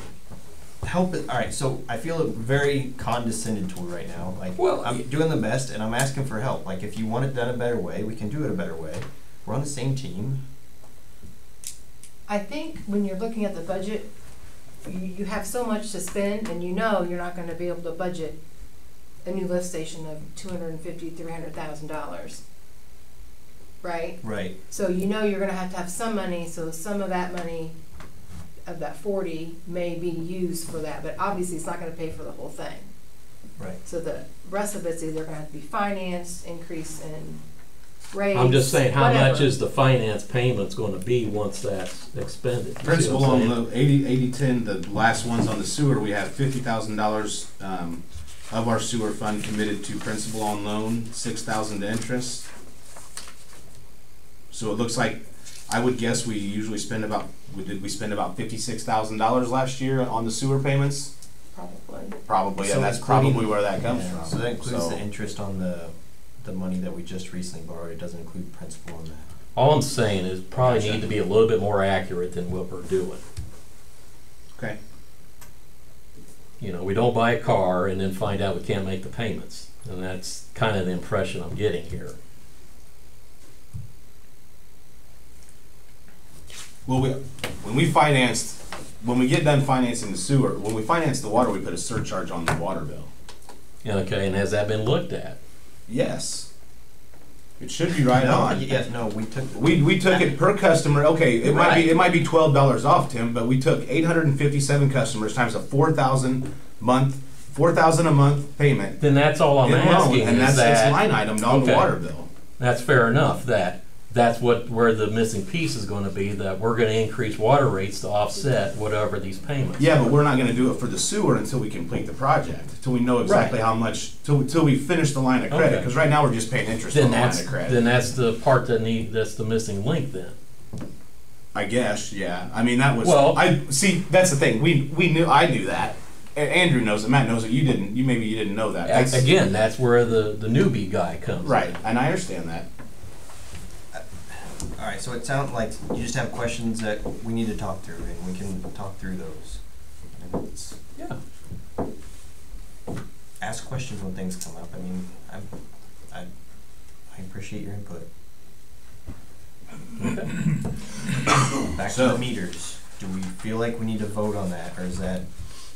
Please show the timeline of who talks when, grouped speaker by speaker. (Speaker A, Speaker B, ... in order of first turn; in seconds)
Speaker A: 0.8-10.4, 24.2-24.6, 62.6-69.2, 70.7-71.1, 98.0-100.3, 144.6-149.6, 150.2-150.8, 153.4-155.5, 157.1-158.1, 161.5-165.2
Speaker B: 4.6-5.0, 38.3-43.5, 69.6-73.2, 76.6-82.2, 93.8-95.4, 101.4-101.9, 109.0-111.9, 112.6-119.9, 123.2-123.6, 125.5-125.9, 126.9-130.3, 133.0-133.4, 138.8-141.7, 160.0-160.3
Speaker C: 12.3-14.1, 14.8-18.4, 19.2-22.4, 23.8-27.8, 28.7-32.9, 33.9-37.4, 38.1-39.5, 61.5-62.2
Speaker D: 42.8-52.5, 54.5-61.1, 62.3-65.0, 86.9-93.1, 95.9-96.5, 97.6-98.8, 99.5-109.0, 109.6-112.3, 119.8-127.8, 131.5-139.3, 141.4-142.7, 161.9-162.2